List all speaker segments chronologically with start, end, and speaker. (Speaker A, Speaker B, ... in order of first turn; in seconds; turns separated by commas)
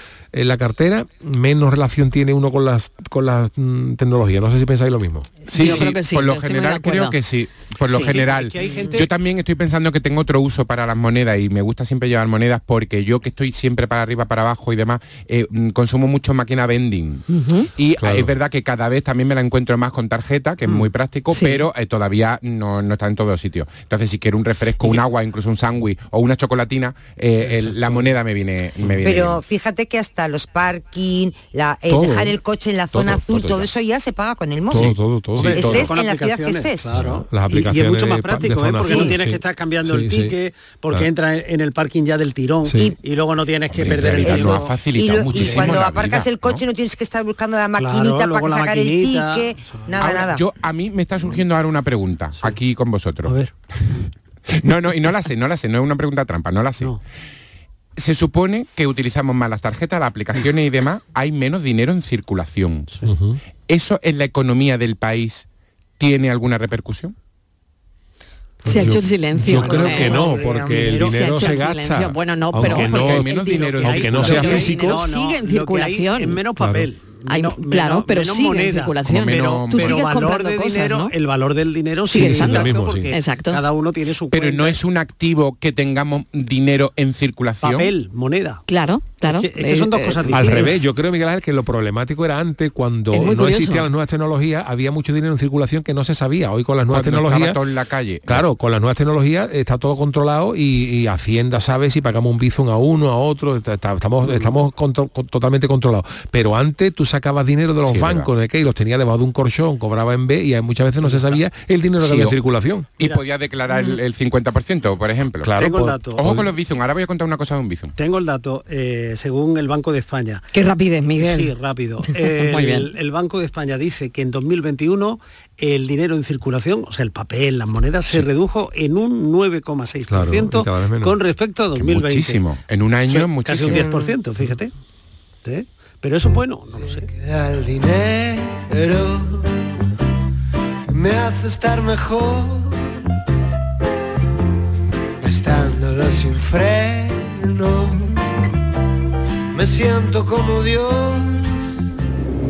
Speaker A: 0.3-5.3, Speaker B: 5.5-7.2, Speaker C: 5.5-17.2, Speaker B: 7.8-8.2, Speaker D: 7.9-9.1, Speaker B: 17.3-17.7, Speaker C: 17.8-29.4, Speaker A: 18.0-18.3, Speaker B: 21.3-21.6, Speaker D: 27.6-28.0, Speaker E: 29.0-36.8, Speaker A: 31.9-32.4, Speaker A: 32.9-33.7, Speaker A: 34.7-35.8, Speaker D: 35.4-44.7, Speaker C: 35.5-35.9, Speaker A: 36.9-40.3, Speaker E: 38.8-39.1, Speaker A: 42.6-42.9, Speaker C: 43.7-46.6, Speaker E: 44.2-50.4, Speaker D: 45.3-45.8, Speaker D: 47.8-50.0, Speaker C: 50.0-53.3, Speaker D: 53.2-53.5, Speaker C: 54.5-56.9, Speaker C: 58.0-62.9, Speaker A: 63.0-63.4, Speaker C: 63.7-65.5, Speaker C: 66.0-67.1, Speaker A: 68.6-73.3, Speaker B: 68.7-70.2, Speaker D: 69.5-71.5, Speaker E: 70.3-70.8, Speaker B: 71.0-76.4, Speaker C: 72.6-74.7, Speaker D: 73.5-84.8, Speaker A: 73.8-75.0, Speaker A: 76.6-76.9, Speaker B: 77.3-81.1, Speaker C: 79.1-80.1, Speaker B: 82.1-83.6, Speaker A: 82.1-83.1, Speaker C: 84.3-87.9, Speaker D: 87.6-88.6, Speaker B: 88.7-90.7, Speaker D: 89.2-90.8, Speaker A: 90.3-97.6, Speaker B: 93.1-93.9, Speaker C: 96.9-98.4, Speaker A: 98.3-112.9, Speaker D: 104.2-104.6, Speaker C: 107.8-108.3, Speaker D: 111.0-111.4, Speaker C: 112.0-112.3, Speaker C: 113.0-115.6, Speaker A: 115.4-116.5, Speaker D: 115.6-116.2, Speaker C: 116.2-117.9, Speaker D: 118.0-120.5, Speaker B: 120.5-121.5, Speaker D: 121.1-132.4, Speaker B: 122.0-122.9, Speaker A: 130.1-131.2, Speaker C: 131.8-133.9, Speaker D: 133.1-134.7, Speaker D: 135.4-137.1, Speaker F: 136.8-139.7, Speaker F: 140.9-142.8, Speaker F: 145.2-148.4, Speaker F: 149.5-151.7